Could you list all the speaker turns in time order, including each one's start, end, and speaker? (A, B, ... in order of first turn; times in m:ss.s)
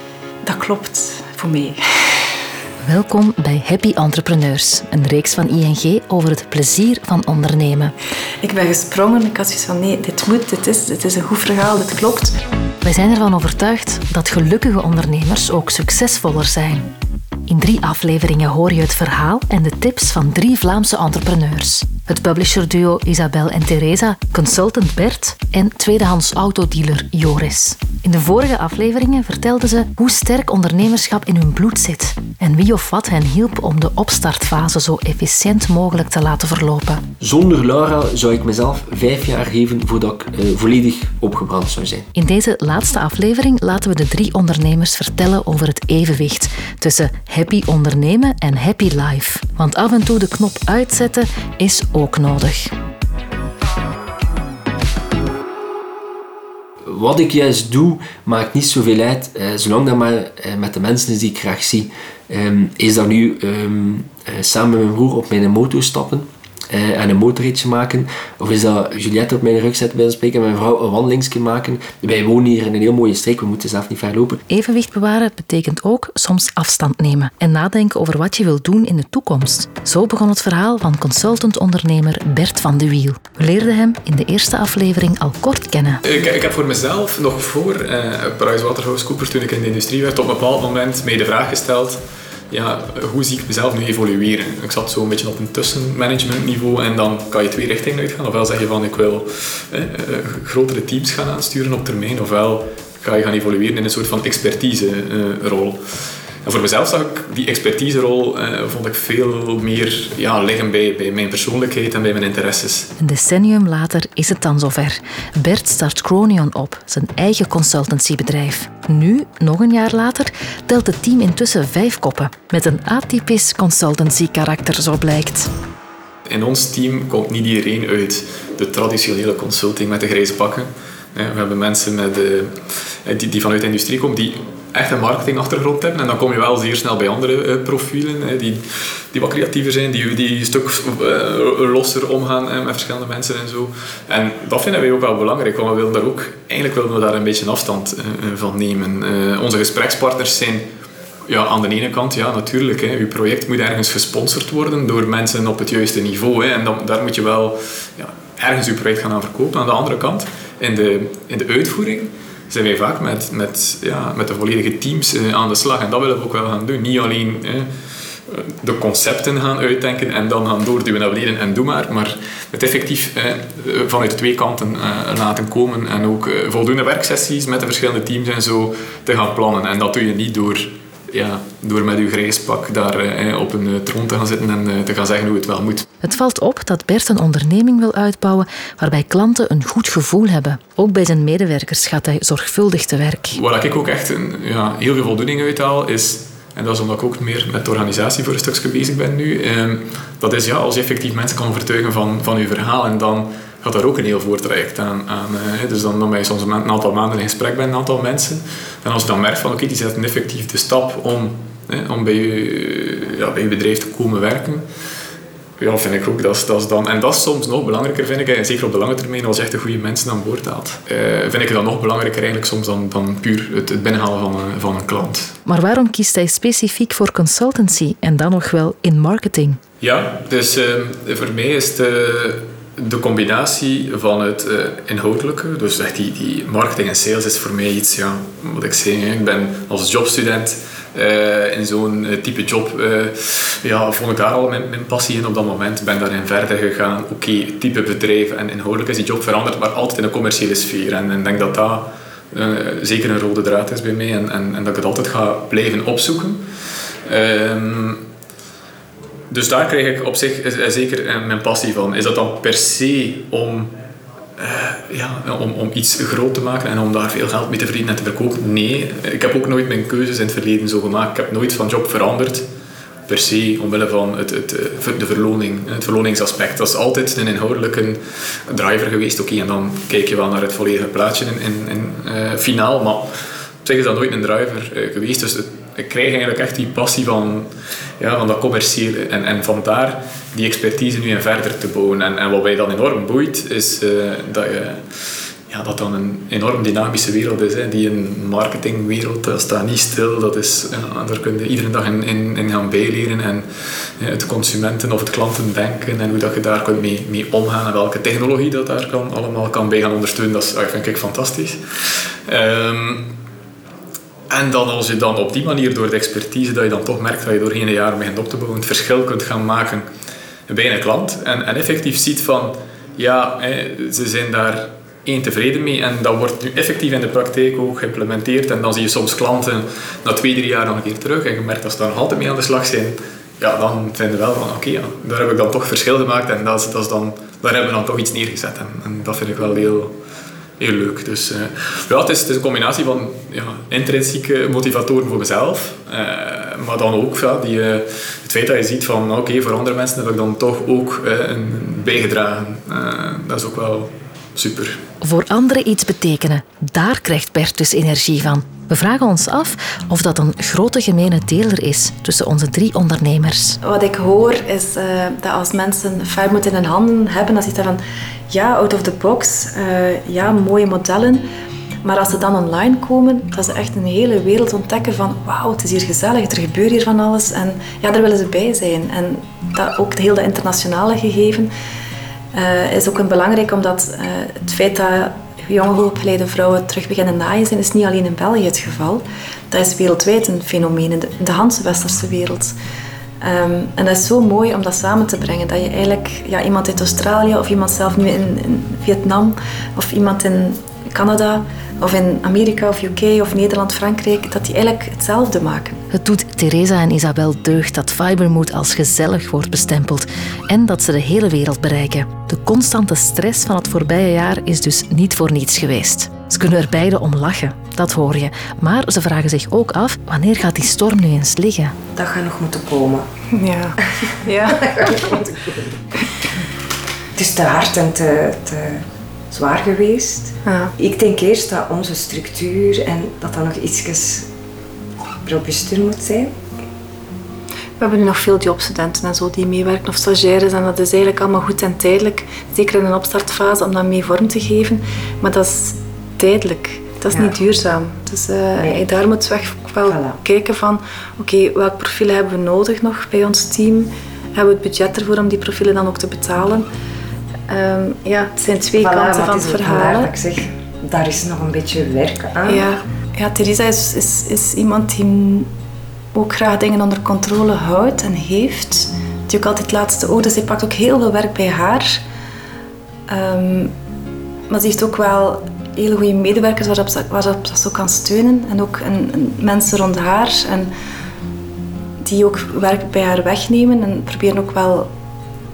0:00.4-0:01.8 A
0:02.8-0:07.9 B
0:08.4-0:12.3 A
0:12.8-0:16.9 B
0:17.5-0:37.0 B
0:37.2-0:42.1 C
0:42.2-0:52.7 B
0:56.8-1:14.4 C
1:14.5-1:26.0 B
1:26.0-1:45.8 D
1:46.4-1:52.9 D
1:53.0-2:05.5 B
2:06.3-2:30.7 D
2:31.3-2:47.7 D
2:48.3-3:05.9 D
3:06.0-3:13.4 B
3:13.3-3:34.6 D
3:35.6-3:45.4 D
3:45.5-3:49.6 B
3:49.8-4:16.4 D
4:17.1-4:18.1 D
4:19.3-4:23.7 D
4:24.4-4:32.5 D
4:33.1-4:43.1 D
4:43.6-5:13.2 D
5:14.3-5:19.8 D
5:20.5-5:39.9 D
5:40.6-5:54.8 D
5:55.0-6:03.6 B
6:03.6-6:11.2 A
6:11.8-6:21.5 A
6:22.3-6:32.6 A
6:33.2-6:45.8 A
6:45.9-7:01.8 B
7:02.0-7:03.1 E
7:03.3-7:05.2 A
7:04.5-7:05.7 E
7:07.2-7:14.3 E
7:10.4-7:10.7 A
7:15.2-7:16.3 E
7:17.8-7:36.7 A
7:28.6-7:28.9 E
7:29.8-7:30.2 E
7:37.5-7:40.1 A
7:38.8-7:42.7 E
7:42.5-7:45.5 A
7:46.1-7:52.0 A
7:53.1-7:53.7 A
7:54.5-8:00.7 A
8:02.0-8:04.9 A